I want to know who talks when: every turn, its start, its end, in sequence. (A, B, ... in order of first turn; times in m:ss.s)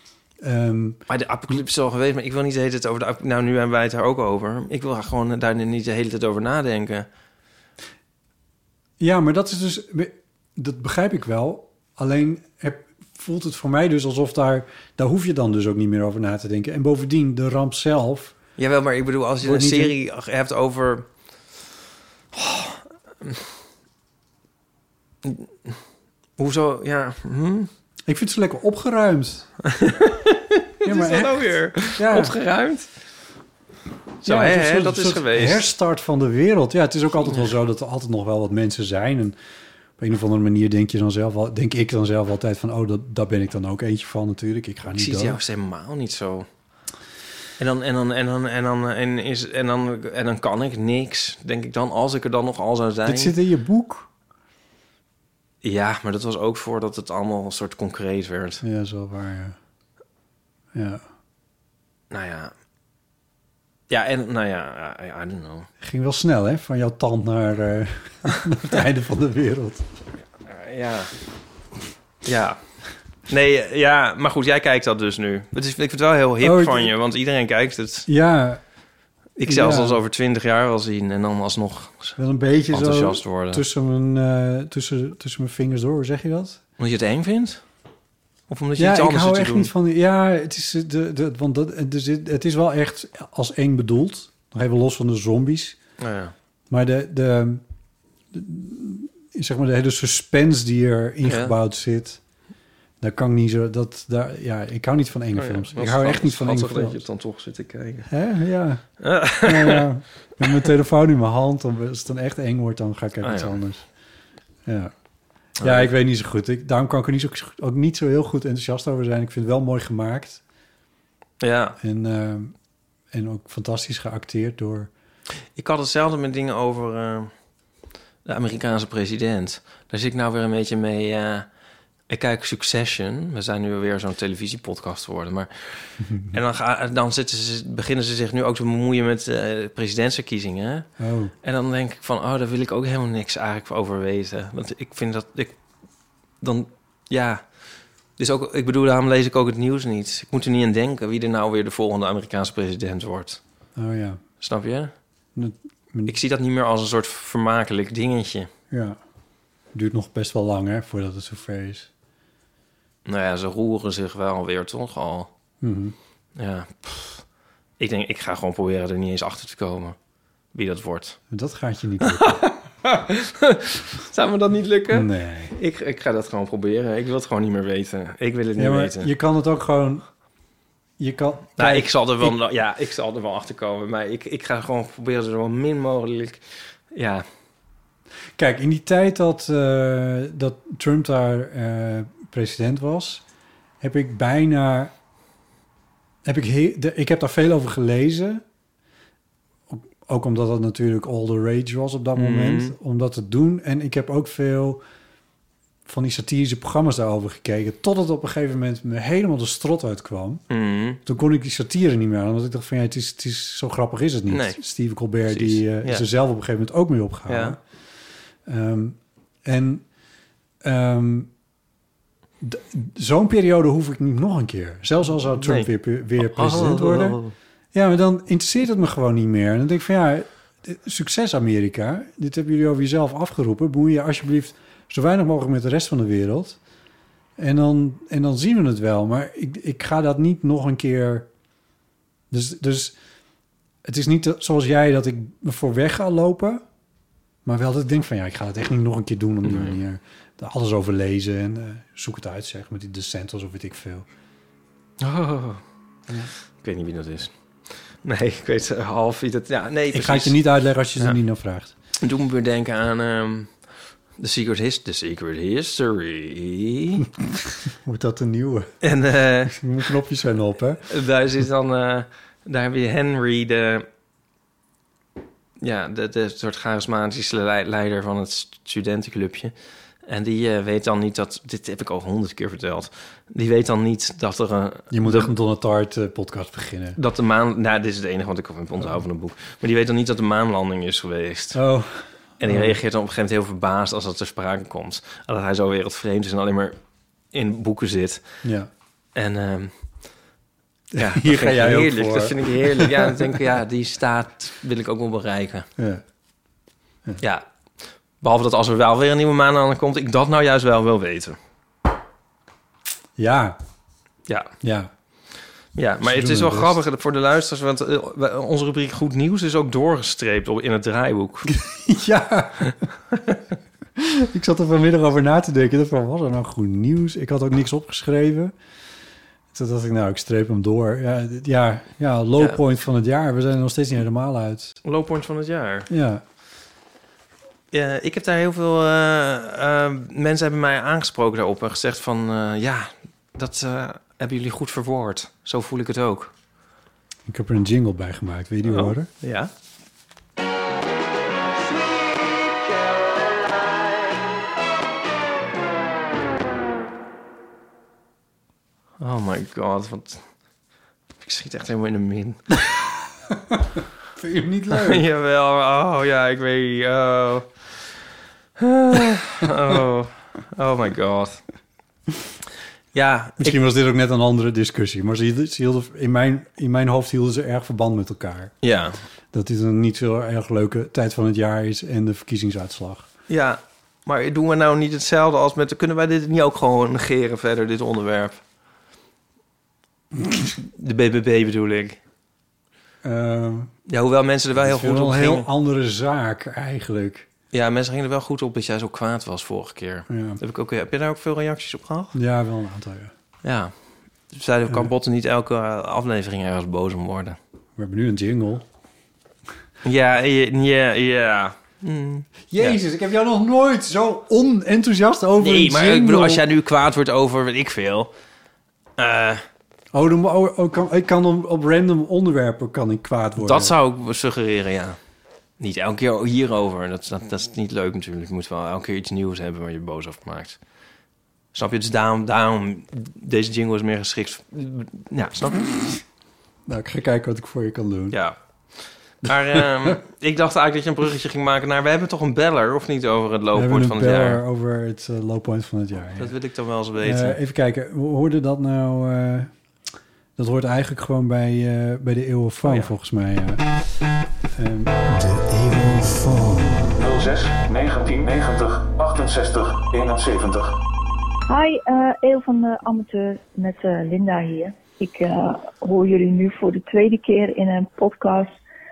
0:00.4-0:01.0 A
0:01.1-0:07.1 B
0:09.0-0:18.4 A
0:18.6-0:21.1 B
0:19.4-0:19.9 A
0:22.3-0:23.4 B
0:25.2-0:25.8 B
0:26.4-0:27.7 B
0:28.1-0:29.5 A
0:29.8-0:32.9 B
0:30.8-0:32.4 A
0:34.2-0:35.6 B
0:34.2-0:39.4 A
0:40.0-0:45.4 A
0:44.9-0:46.5 B
0:47.6-0:53.3 B
0:53.1-0:54.1 A
0:55.6-0:58.6 B
0:58.6-0:59.6 A
1:00.7-1:01.0 A
1:02.1-1:02.5 B
1:03.9-1:05.7 B
1:05.8-1:10.0 A
1:10.5-1:11.2 B
1:12.2-1:18.1 B
1:16.4-1:16.9 A
1:18.1-1:18.8 A
1:19.4-1:22.2 B
1:19.4-1:20.0 A
1:22.2-1:26.6 A
1:22.7-1:23.6 B
1:26.8-1:27.7 B
1:28.5-1:29.7 B
1:28.8-1:35.8 A
1:36.0-1:36.3 B
1:36.7-1:37.6 A
1:38.3-1:42.2 A
1:41.2-1:41.6 B
1:43.0-1:47.1 A
1:45.4-1:48.1 B
1:48.1-1:53.9 A
1:49.0-1:49.9 B
1:53.2-1:53.6 B
1:54.6-2:00.4 A
1:55.6-1:55.9 B
2:01.4-2:01.8 B
2:01.8-2:04.9 A
2:05.5-2:07.4 B
2:08.2-2:11.5 B
2:12.1-2:20.9 B
2:16.1-2:16.3 A
2:21.0-2:21.3 A
2:21.4-2:25.6 B
2:26.4-2:33.4 B
2:33.8-2:34.2 A
2:34.4-2:35.0 B
2:35.4-2:36.2 A
2:36.1-2:38.5 B
2:38.7-2:39.0 A
2:39.7-2:41.9 A
2:43.0-2:45.3 B
2:45.6-2:46.0 A
2:46.4-2:47.2 B
2:47.8-2:50.0 B
2:50.5-2:51.2 B
2:51.3-2:52.4 A
2:52.8-2:59.1 B
2:54.9-2:55.6 A
2:58.6-3:00.2 A
3:01.0-3:02.4 A
3:01.6-3:07.3 B
3:08.4-3:13.2 A
3:13.8-3:14.9 A
3:16.2-3:18.4 A
3:19.7-3:24.8 A
3:22.2-3:22.8 B
3:25.8-3:30.4 A
3:30.5-3:31.0 B
3:31.0-3:37.6 A
3:34.3-3:34.6 B
3:35.3-3:36.0 B
3:37.3-3:37.6 B
3:38.4-3:39.9 A
3:40.6-3:41.3 A
3:42.4-3:56.6 A
3:45.4-3:47.3 B
3:57.4-4:01.3 A
4:02.3-4:03.0 A
4:03.8-4:06.6 A
4:07.4-4:14.1 A
4:09.4-4:09.8 B
4:15.0-4:15.6 B
4:16.4-4:20.4 B
4:19.9-4:21.7 A
4:22.0-4:27.1 B
4:27.7-4:28.8 A
4:28.8-4:29.6 B
4:29.5-4:30.8 A
4:30.9-4:33.9 B
4:35.6-4:45.3 B
4:44.9-4:47.0 A
4:47.0-4:51.6 B
4:51.6-4:52.8 A
4:52.4-4:58.4 B
4:58.4-4:58.7 A
4:59.1-5:00.1 B
5:00.9-5:03.1 A
5:01.0-5:05.7 B
5:05.8-5:06.0 A
5:07.2-5:07.5 B
5:08.1-5:11.4 B
5:13.2-5:13.6 A
5:14.3-5:14.5 B
5:14.6-5:14.9 A
5:15.8-5:21.5 B
5:16.0-5:16.8 A
5:21.5-5:22.8 A
5:24.0-5:28.5 A
5:29.5-5:34.8 A
5:34.8-5:35.9 B
5:35.9-5:36.2 A
5:37.7-5:46.3 B
5:47.3-5:49.1 A
5:48.6-5:49.5 B
5:59.0-6:00.3 B
6:01.2-6:02.5 B
6:03.3-6:05.0 A
6:04.7-6:07.7 B
6:08.6-6:11.4 B
6:12.9-6:13.6 B
6:13.4-6:18.6 A
6:18.6-6:19.0 B
6:19.3-6:23.1 A
6:23.3-6:28.4 B
6:30.6-6:32.0 B
6:33.0-6:33.7 A
6:33.9-6:35.5 B
6:34.6-6:37.3 A
6:37.5-6:42.2 B
6:40.1-6:40.4 A
6:42.1-6:43.1 A
6:43.4-6:47.4 B
6:47.8-6:48.7 A
6:49.8-6:52.8 B
6:52.5-6:56.4 A
6:55.4-6:58.1 B
6:59.0-6:59.4 B
6:59.9-7:03.7 A
7:03.4-7:05.0 B
7:05.6-7:10.6 B
7:11.5-7:15.9 B
7:16.7-7:18.2 A
7:18.1-7:24.4 B
7:19.3-7:20.0 A
7:23.5-7:26.3 A
7:26.2-7:27.4 B
7:27.0-7:29.5 A
7:30.4-7:33.7 A
7:32.6-7:32.9 B
7:34.5-7:36.9 A
7:37.0-7:40.8 C
7:41.5-7:48.5 D